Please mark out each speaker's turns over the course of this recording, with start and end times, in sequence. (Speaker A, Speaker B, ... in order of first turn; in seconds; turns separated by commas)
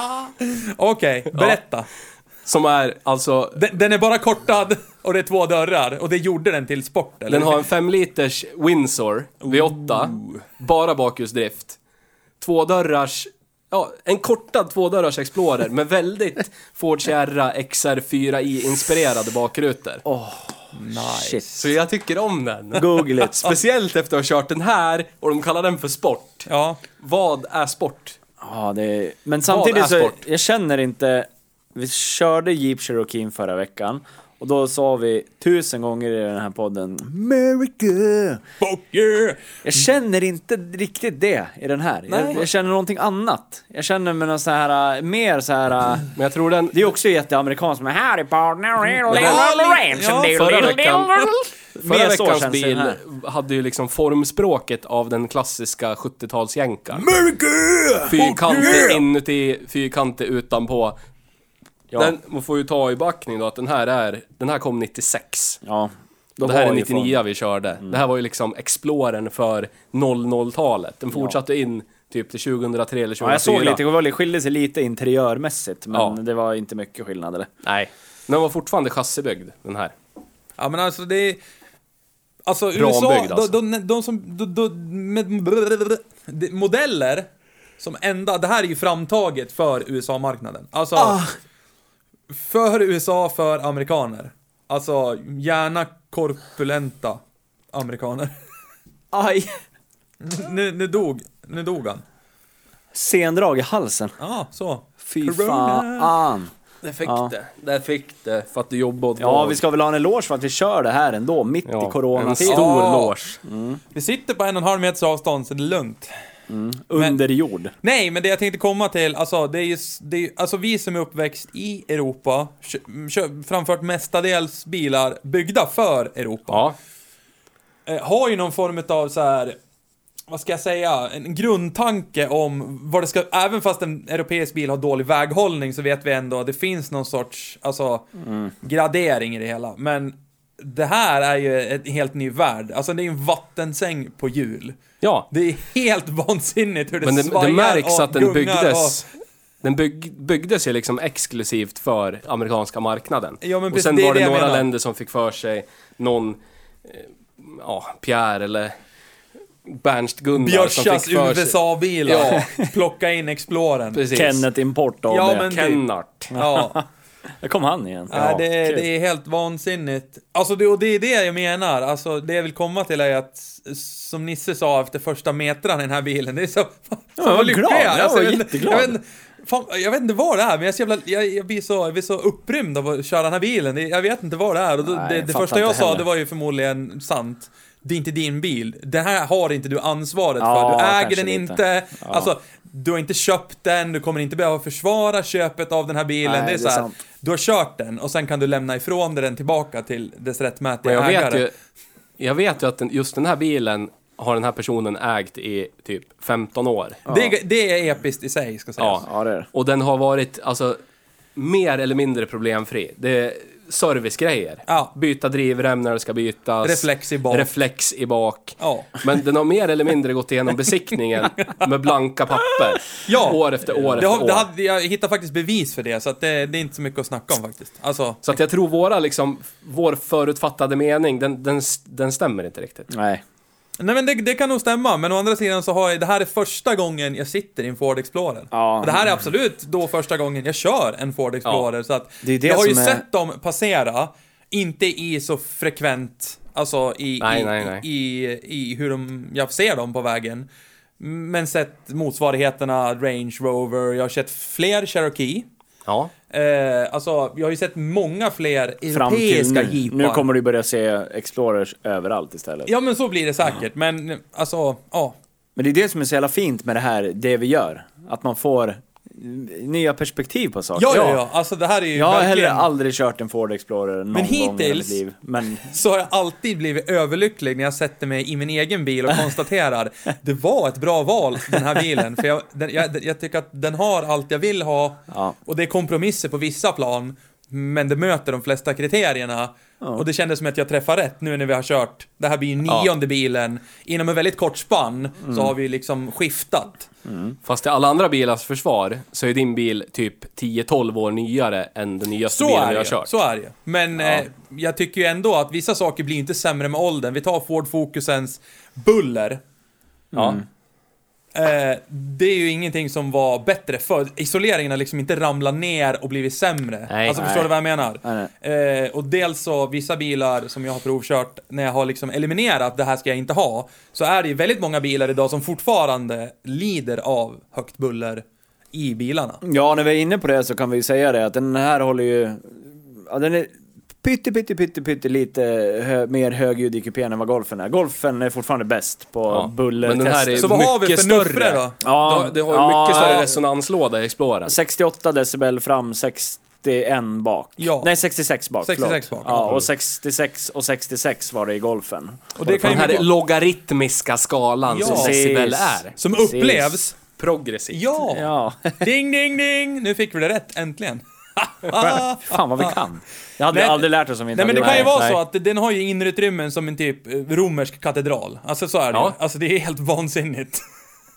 Speaker A: 0.3-1.9, Speaker B: 2.4-3.6, Speaker A: 3.5-7.6, Speaker B: 7.3-11.8, Speaker A: 9.4-10.4, Speaker B: 12.4-20.0, Speaker C: 20.0-21.4, Speaker A: 20.7-21.7, Speaker B: 21.6-28.2, Speaker C: 22.7-23.4, Speaker A: 26.5-26.8, Speaker C: 28.4-38.4, Speaker B: 29.5-30.2, Speaker A: 38.6-39.6, Speaker C: 39.6-46.1, Speaker A: 42.1-42.5, Speaker B: 46.1-46.8, Speaker C: 46.7-53.0, Speaker B: 49.1-49.6, Speaker A: 49.1-50.7, Speaker B: 50.3-51.3, Speaker B: 51.8-57.1, Speaker A: 57.1-59.0, Speaker C: 58.0-58.9, Speaker B: 58.1-61.0, Speaker B: 61.9-65.6, Speaker C: 65.6-67.2, Speaker B: 66.4-73.8, Speaker C: 73.2-77.5, Speaker B: 77.6-79.9, Speaker A: 80.6-81.4, Speaker A: 82.5-87.3, Speaker B: 82.8-83.5, Speaker A: 87.8-91.2, Speaker C: 90.9-91.3, Speaker A: 92.3-97.2, Speaker A: 97.7-98.3, Speaker C: 99.1-99.6, Speaker A: 100.2-102.0, Speaker C: 102.9-104.1, Speaker A: 104.2-106.1, Speaker C: 105.0-106.5, Speaker B: 106.8-109.6, Speaker C: 107.0-107.3, Speaker C: 109.2-112.8, Speaker B: 111.7-113.4, Speaker A: 112.4-113.2, Speaker C: 113.4-113.8, Speaker A: 113.9-116.1, Speaker C: 116.5-117.7, Speaker A: 117.8-126.6, Speaker B: 126.5-126.7, Speaker A: 127.8-129.6, Speaker A: 130.3-138.1, Speaker A: 138.6-149.0, Speaker B: 145.0-145.3, Speaker B: 147.0-149.1, Speaker B: 149.6-158.7, Speaker A: 153.4-154.6, Speaker B: 159.7-162.4, Speaker A: 160.3-164.0, Speaker B: 163.9-164.4, Speaker C: 164.1-165.5, Speaker A: 165.1-165.8, Speaker B: 165.4-166.3, Speaker C: 166.3-166.8, Speaker A: 166.3-166.8, Speaker C: 167.4-168.8, Speaker A: 168.1-201.4, Speaker B: 168.1-168.4, Speaker C: 177.2-179.0, Speaker C: 184.8-186.1, Speaker C: 190.4-192.3, Speaker C: 196.2-196.9, Speaker B: 200.8-201.5, Speaker B: 202.2-207.0, Speaker A: 207.1-209.1, Speaker C: 207.1-207.3, Speaker B: 208.8-210.8, Speaker C: 209.0-209.5, Speaker B: 211.3-224.5, Speaker A: 216.6-217.5, Speaker A: 218.6-219.0, Speaker A: 223.0-223.4, Speaker C: 223.7-224.0, Speaker A: 223.9-228.2, Speaker B: 228.2-232.9, Speaker C: 232.9-233.2, Speaker A: 233.8-250.5, Speaker C: 238.5-239.1, Speaker C: 242.2-243.0, Speaker B: 247.2-247.8, Speaker A: 251.0-255.5, Speaker B: 255.8-256.1, Speaker A: 256.3-260.3, Speaker C: 258.9-262.7, Speaker A: 262.6-265.2, Speaker C: 265.6-271.2, Speaker A: 270.8-272.7, Speaker C: 271.9-275.7, Speaker A: 274.1-275.0, Speaker A: 275.6-296.9, Speaker C: 297.1-297.4, Speaker B: 297.4-303.1, Speaker A: 302.3-309.4, Speaker C: 310.1-310.4, Speaker B: 310.1-310.4, Speaker A: 311.3-329.4, Speaker B: 316.9-317.2, Speaker C: 317.1-318.3, Speaker C: 329.4-340.7, Speaker B: 339.3-344.5, Speaker A: 340.4-341.8, Speaker C: 341.8-343.4, Speaker C: 344.4-353.0, Speaker A: 347.6-347.9, Speaker A: 348.6-349.6, Speaker A: 352.4-353.1, Speaker B: 352.5-355.9, Speaker A: 354.7-355.2, Speaker C: 354.8-356.7, Speaker A: 355.9-357.0, Speaker B: 357.1-357.8, Speaker A: 357.7-362.8, Speaker C: 358.0-358.8, Speaker C: 361.7-364.9, Speaker A: 363.5-370.6, Speaker B: 364.6-365.2